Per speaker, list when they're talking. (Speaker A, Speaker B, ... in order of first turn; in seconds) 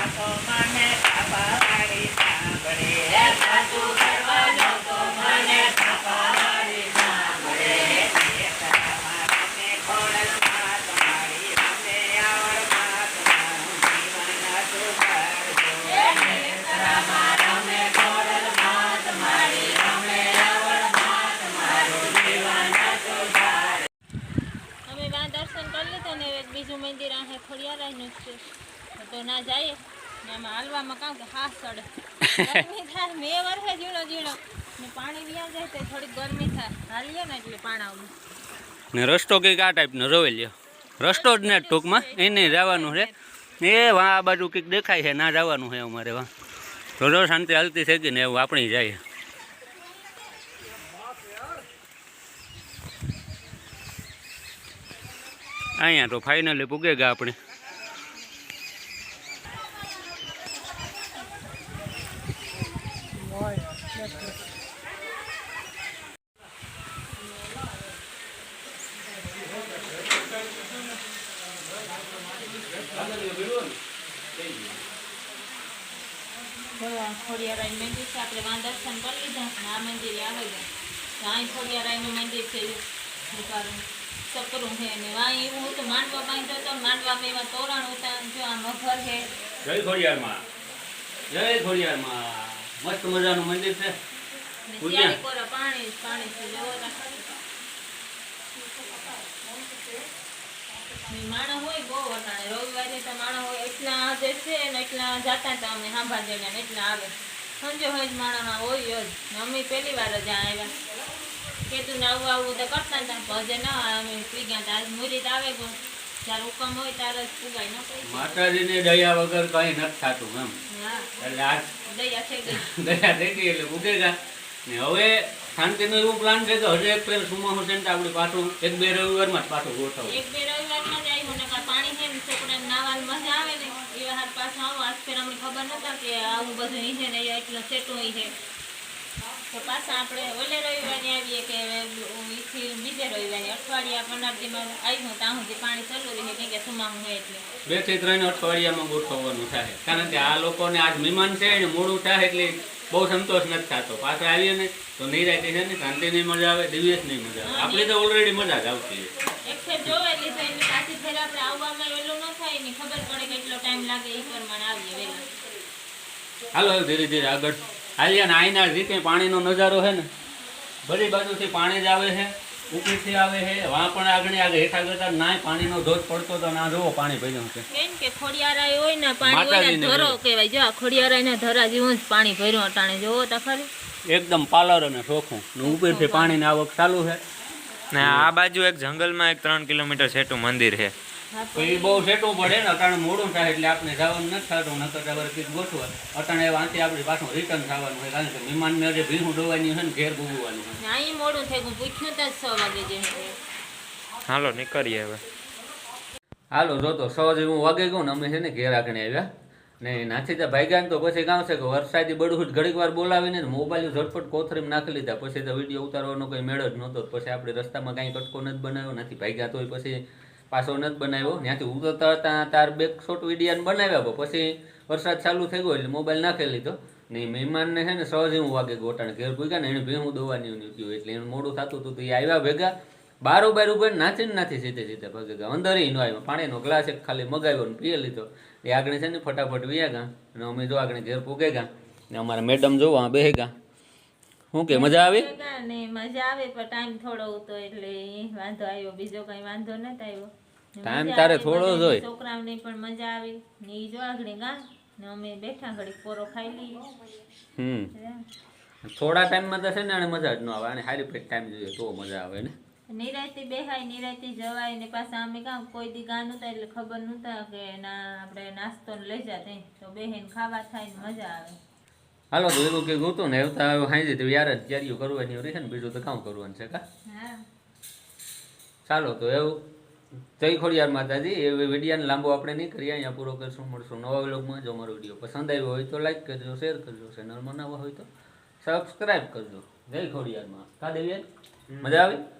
Speaker A: 3.0-8.2, 12.2-12.6, 15.7-23.4, 24.9-28.4, 28.9-38.1, 41.0-43.1, 76.8-80.7, 81.2-89.3, 94.7-97.4, 101.0-110.8, 111.7-118.5, 120.7-121.1, 121.7-122.7, 130.1-138.3, 139.5-147.4, 157.4-157.9, 159.4-165.3, 177.7-183.7, 185.6-186.4, 191.3-192.1, 200.8-203.4, 244.7-257.1, 257.9-258.2, 262.9-271.6, 277.1-277.4
Speaker B: 32.2-32.6, 38.9-43.1, 43.6-46.3, 47.0-49.0, 55.8-57.4, 72.7-73.8, 74.3-74.7, 89.6-90.4, 91.3-94.0, 94.8-95.2, 118.0-120.6, 121.2-121.7, 122.5-130.2, 147.7-159.1, 166.5-170.1, 170.8-177.6, 179.2-180.2, 184.1-187.2, 188.0-188.3, 191.6-200.8, 206.5-209.3, 209.8-243.5, 244.5-245.3, 250.8-252.0, 257.6-257.9, 258.8-262.5, 272.3-276.8, 278.9-279.6, 280.4-288.1, 288.6-291.2, 291.8-292.2
Speaker C: 187.9-190.9, 204.3-205.2, 291.7-292.0